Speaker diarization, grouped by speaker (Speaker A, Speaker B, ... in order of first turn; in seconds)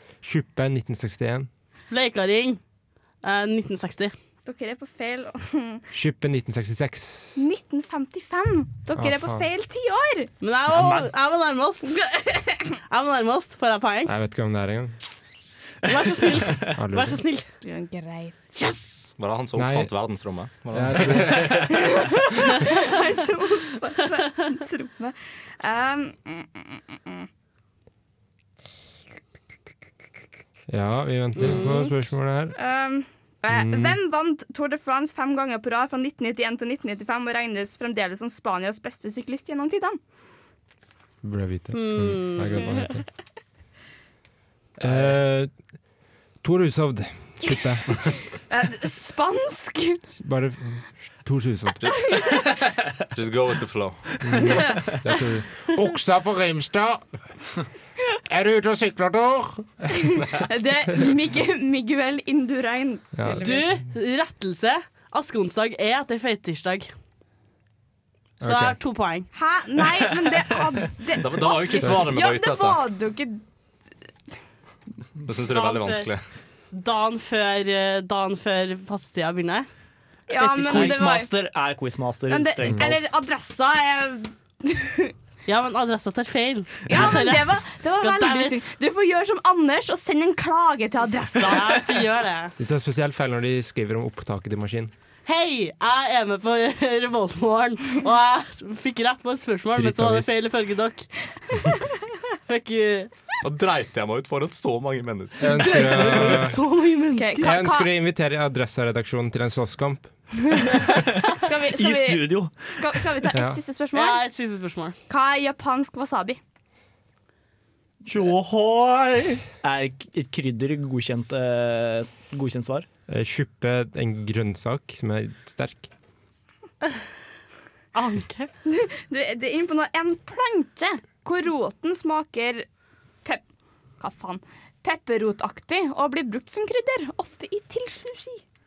Speaker A: 0.2-1.5, 5.9-7.4, 9.0-9.5, 14.1-15.0, 16.7-17.2, 19.6-19.9, 20.7-21.9, 30.7-32.6, 33.5-34.0, 41.2-43.1, 44.8-45.5, 46.4-48.1, 50.2-51.8, 54.2-57.2, 58.3-60.1, 63.2-63.7, 68.4-68.8, 92.6-94.9, 99.8-100.3, 105.4-106.6, 107.4-110.3, 113.3-113.6, 123.1-125.9
Speaker B: 1.9-2.6, 3.2-4.1, 10.4-12.0, 12.9-14.1, 15.8-17.5, 31.4-31.9, 41.7-42.9, 63.4-66.9, 68.4-69.3, 75.5-76.1, 76.7-79.7, 80.3-81.0, 85.5-88.6, 91.4-92.5, 95.3-101.1, 102.5-103.1, 105.6-107.6, 113.9-115.0, 127.9-128.5
Speaker C: 4.5-5.9, 7.4-10.3, 11.9-12.7, 17.6-19.0, 21.8-27.3, 32.5-40.0, 48.5-50.0, 54.4-54.9, 60.0-63.8, 69.3-73.4, 80.3-81.3, 82.3-85.1, 86.9-92.1, 107.2-107.9, 110.6-110.8, 111.4-114.2, 115.1-116.4, 128.7-132.7, 134.0-138.4
Speaker D: 10.7-11.1, 80.6-83.1, 111.8-113.1, 118.0-122.9
Speaker E: 19.2-21.5, 51.8-52.5, 53.1-54.2, 71.2-72.8, 75.2-76.2, 103.4-106.0